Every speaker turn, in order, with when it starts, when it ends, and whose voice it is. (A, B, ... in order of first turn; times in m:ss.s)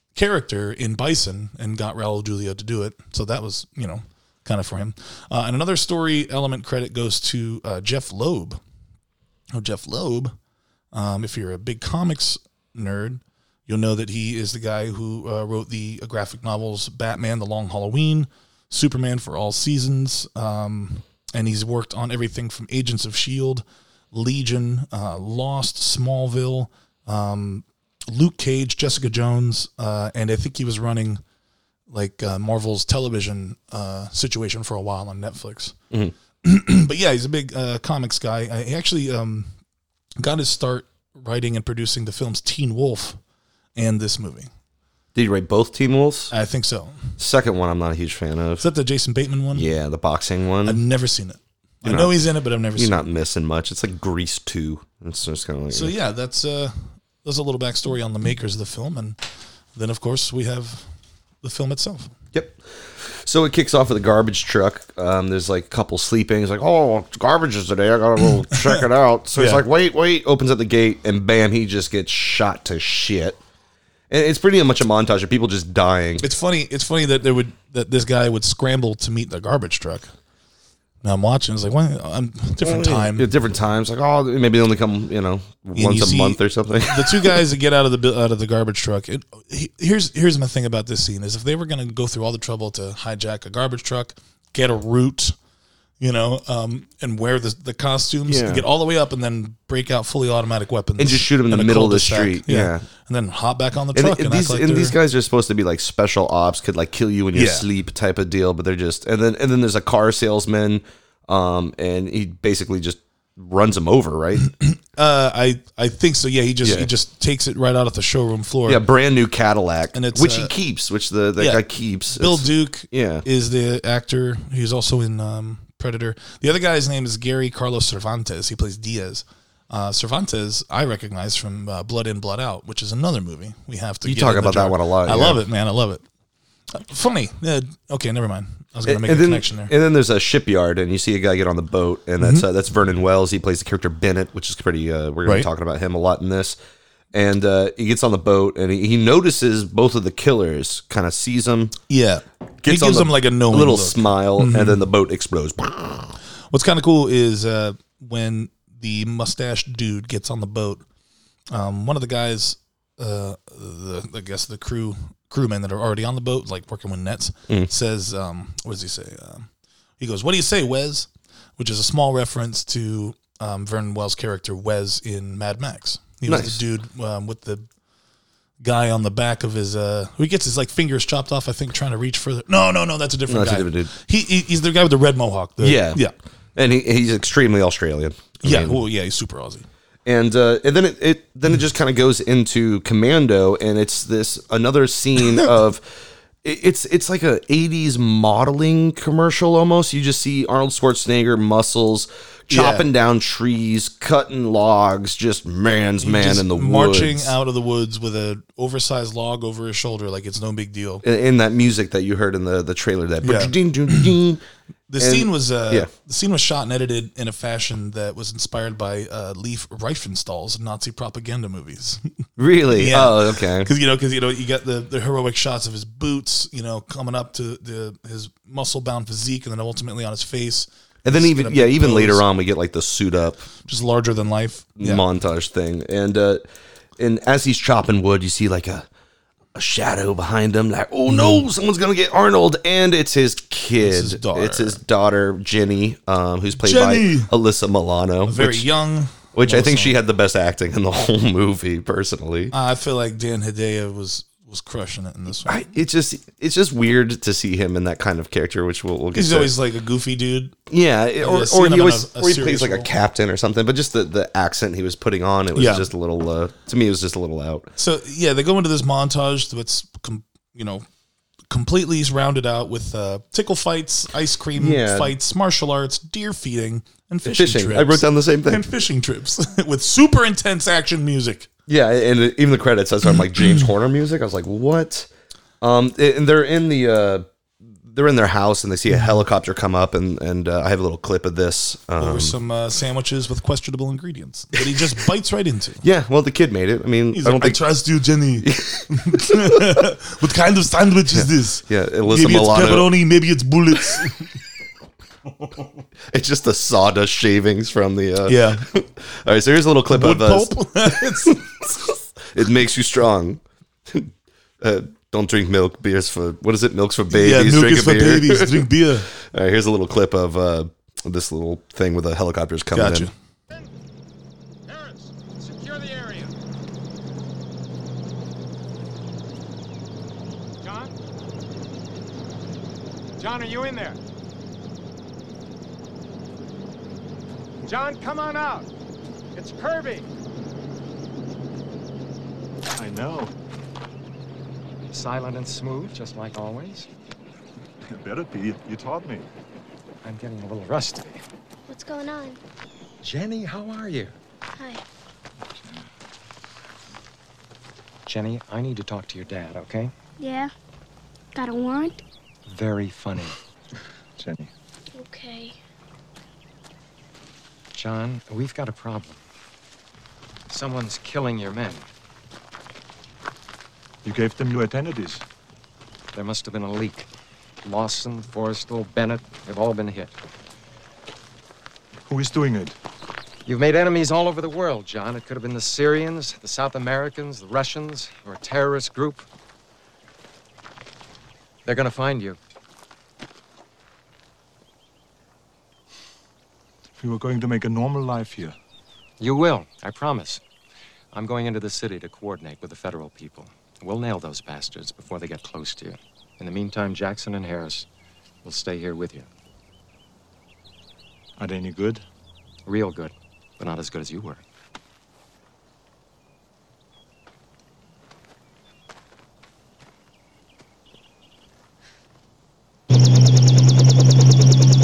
0:00.1-0:08.6 A
0:09.5-0:10.3 A
0:10.9-0:31.2 A
0:31.9-0:35.7 A
0:36.4-0:39.5 A
0:40.2-0:43.2 A
0:43.8-0:44.5 A
0:45.1-0:46.3 B
0:46.3-0:47.2 A
0:47.2-0:48.7 B
0:48.6-0:49.6 A
0:49.5-0:50.8 B
0:50.6-0:53.0 A
0:51.8-0:52.2 B
0:52.7-0:55.9 B
0:55.7-0:59.2 A
0:59.8-1:00.8 A
1:01.4-1:02.1 A
1:02.3-1:13.4 B
1:08.5-1:08.8 A
1:09.3-1:09.6 A
1:14.1-1:16.2 B
1:16.2-1:20.1 A
1:21.0-1:23.3 A
1:22.6-1:27.4 B
1:25.8-1:35.3 A
1:36.0-1:45.0 A
1:38.3-1:38.6 B
1:41.0-1:42.8 B
1:43.9-1:54.5 B
1:47.3-1:47.6 A
1:54.6-1:58.8 A
1:56.6-1:56.9 B
1:58.6-2:03.2 B
1:59.9-2:00.5 A
2:01.4-2:16.0 A
2:14.0-2:15.4 B
2:16.7-2:19.7 A
2:18.8-2:26.6 B
2:22.2-2:22.4 A
2:27.1-2:31.7 B
2:31.9-2:34.8 A
2:32.6-2:36.2 B
2:36.5-2:40.8 A
2:41.5-2:49.5 A
2:50.0-2:57.6 A
2:56.2-2:56.6 B
2:58.6-3:06.1 A
3:03.3-3:03.9 B
3:05.6-3:06.0 B
3:06.6-3:08.8 B
3:08.4-3:09.7 A
3:10.0-3:27.4 B
3:22.5-3:22.9 A
3:26.0-3:31.0 A
3:31.0-3:34.4 B
3:33.2-3:34.1 A
3:34.9-3:42.0 A
3:35.0-3:35.9 B
3:42.4-3:43.7 B
3:42.7-3:52.2 A
3:51.0-3:53.4 B
3:53.6-3:55.0 A
3:54.8-3:56.4 B
3:57.0-3:58.9 B
3:59.5-4:08.7 B
4:01.1-4:01.4 A
4:03.8-4:04.8 A
4:06.5-4:07.3 A
4:08.2-4:10.0 A
4:09.3-4:12.5 B
4:12.5-4:15.6 A
4:15.4-4:19.5 B
4:19.1-4:20.6 A
4:20.7-4:27.7 B
4:21.2-4:22.9 A
4:25.5-4:25.9 A
4:27.8-4:30.8 A
4:31.5-4:41.5 A
4:34.6-4:35.1 B
4:37.2-4:38.6 B
4:41.7-4:45.1 B
4:45.6-4:52.3 B
4:48.9-4:49.2 A
4:52.0-4:55.8 A
4:55.8-4:57.6 B
4:57.1-5:04.3 A
4:58.4-4:59.8 B
5:01.1-5:03.0 B
5:05.4-5:05.7 A
5:06.1-5:23.1 B
5:08.2-5:08.6 A
5:09.9-5:11.4 A
5:17.1-5:19.1 A
5:22.7-5:23.1 A
5:24.7-5:26.3 C
5:30.6-5:30.9 C
5:33.2-5:34.0 C
5:37.6-5:38.7 C
5:39.3-5:40.1 C
5:42.8-5:43.3 D
5:44.9-5:46.9 E
5:47.8-5:49.2 D
5:50.0-5:51.2 E
5:51.7-5:52.4 F
5:53.0-5:54.2 E
5:54.5-5:54.8 F
5:58.0-5:59.9 E
6:00.2-6:00.5 F
6:01.3-6:02.0 F
6:02.4-6:03.3 E
6:04.2-6:04.5 D
6:04.9-6:05.6 F
6:07.7-6:09.2 E
6:10.5-6:11.8 E
6:14.0-6:15.2 D
6:16.1-6:17.1 E
6:17.6-6:20.1 E
6:22.1-6:22.8 D
6:23.4-6:29.2 E
6:31.6-6:32.4 E
6:37.0-6:38.6 D
6:39.2-6:40.4 E
6:41.1-6:47.9 E
6:48.4-6:49.3 E
6:51.4-6:52.0 D
6:52.6-6:54.4 E